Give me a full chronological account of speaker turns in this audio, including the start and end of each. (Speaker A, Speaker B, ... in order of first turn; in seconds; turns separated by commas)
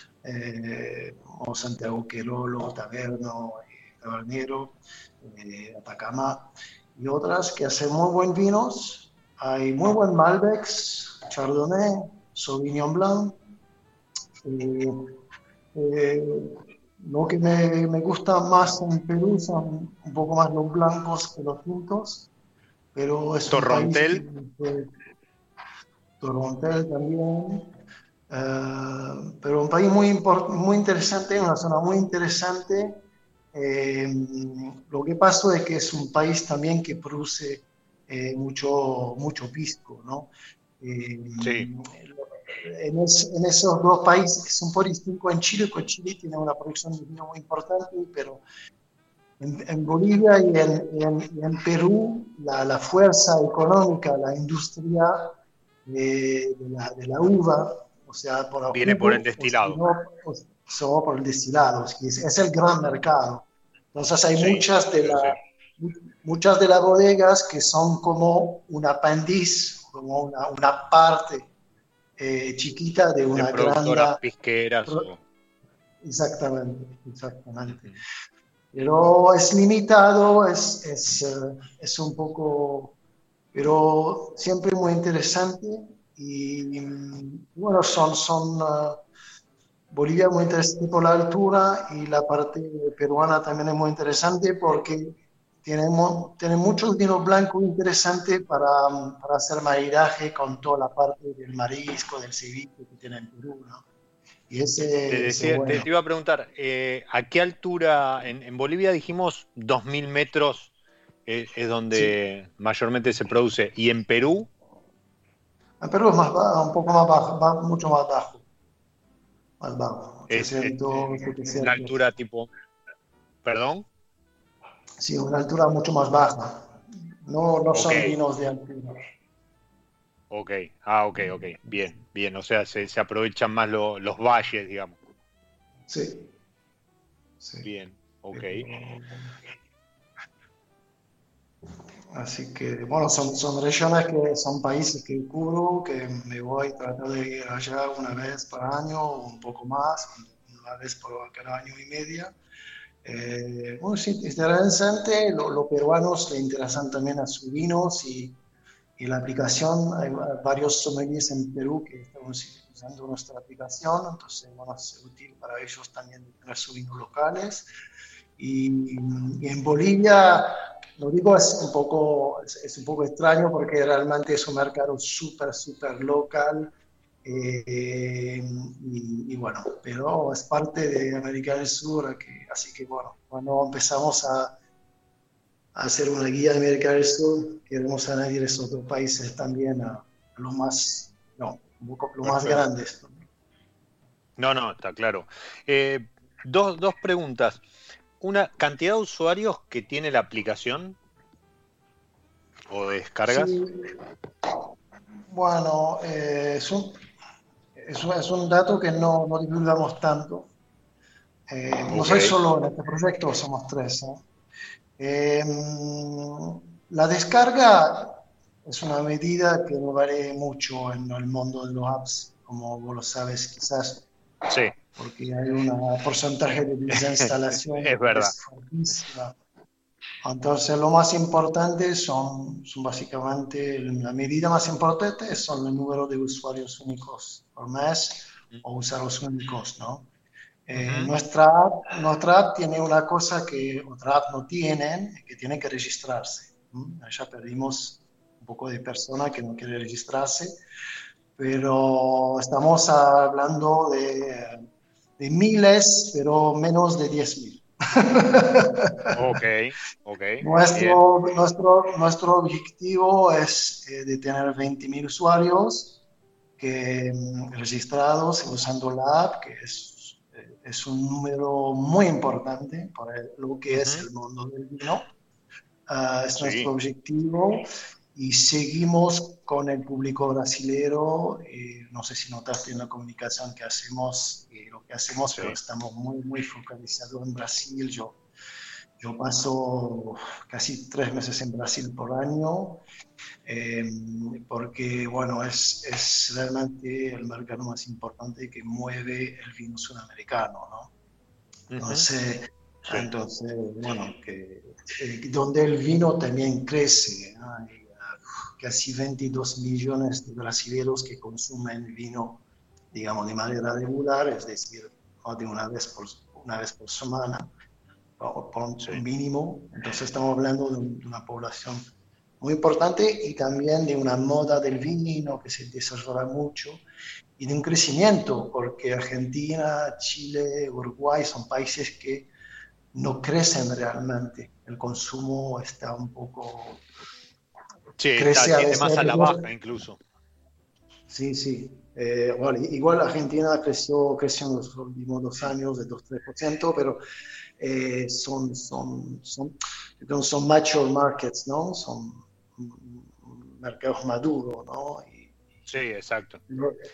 Speaker A: 0.2-13.3, Speaker A: 14.4-15.0, Speaker A: 15.7-22.3, Speaker A: 22.9-24.9, Speaker B: 23.5-24.2, Speaker A: 26.2-27.7, Speaker A: 28.3-33.0, Speaker A: 33.5-48.4, Speaker B: 41.4-41.7, Speaker A: 49.4-71.5, Speaker B: 58.7-59.8, Speaker B: 64.4-65.4, Speaker A: 72.2-74.2, Speaker B: 73.3-75.2, Speaker A: 76.0-77.9, Speaker B: 77.7-78.0, Speaker A: 78.7-83.0, Speaker A: 83.5-89.0, Speaker A: 89.9-103.8, Speaker A: 104.5-105.9, Speaker B: 105.1-110.7, Speaker B: 111.3-114.5, Speaker A: 115.8-118.4, Speaker A: 119.6-121.9, Speaker B: 120.3-122.5, Speaker B: 123.4-123.9, Speaker A: 125.0-126.7, Speaker A: 127.2-129.0, Speaker B: 127.7-128.2, Speaker B: 130.3-135.0, Speaker A: 131.2-132.0, Speaker A: 135.9-136.3, Speaker A: 137.4-137.7, Speaker B: 137.6-138.7, Speaker A: 138.3-139.4, Speaker A: 142.1-152.4, Speaker A: 153.0-158.4, Speaker A: 159.0-167.7, Speaker A: 168.4-184.6, Speaker A: 185.8-193.2, Speaker B: 192.2-192.6, Speaker B: 194.4-197.6, Speaker B: 198.2-201.0, Speaker B: 202.7-203.6, Speaker A: 203.3-203.8, Speaker A: 205.3-207.0, Speaker A: 207.8-210.5, Speaker A: 211.5-214.2, Speaker B: 211.9-212.3, Speaker A: 215.0-224.1, Speaker B: 224.5-224.7, Speaker A: 225.0-229.3, Speaker B: 226.9-227.3, Speaker B: 227.8-228.3, Speaker A: 230.2-240.1, Speaker A: 240.7-250.6, Speaker B: 240.8-241.1, Speaker A: 251.4-254.7, Speaker A: 255.2-259.4, Speaker B: 259.1-261.0, Speaker A: 260.4-266.0, Speaker A: 266.6-275.1, Speaker B: 273.7-274.1, Speaker A: 275.9-277.6, Speaker B: 276.4-276.7, Speaker A: 278.1-288.2, Speaker A: 289.0-292.8, Speaker A: 293.4-300.9, Speaker B: 301.7-302.1, Speaker A: 301.8-317.5, Speaker A: 318.2-321.9, Speaker A: 322.4-326.8, Speaker A: 327.4-332.3, Speaker A: 332.9-336.8, Speaker B: 338.0-340.0, Speaker A: 338.2-339.5, Speaker A: 341.1-347.0, Speaker A: 347.6-355.4, Speaker B: 355.7-356.4, Speaker A: 356.5-356.8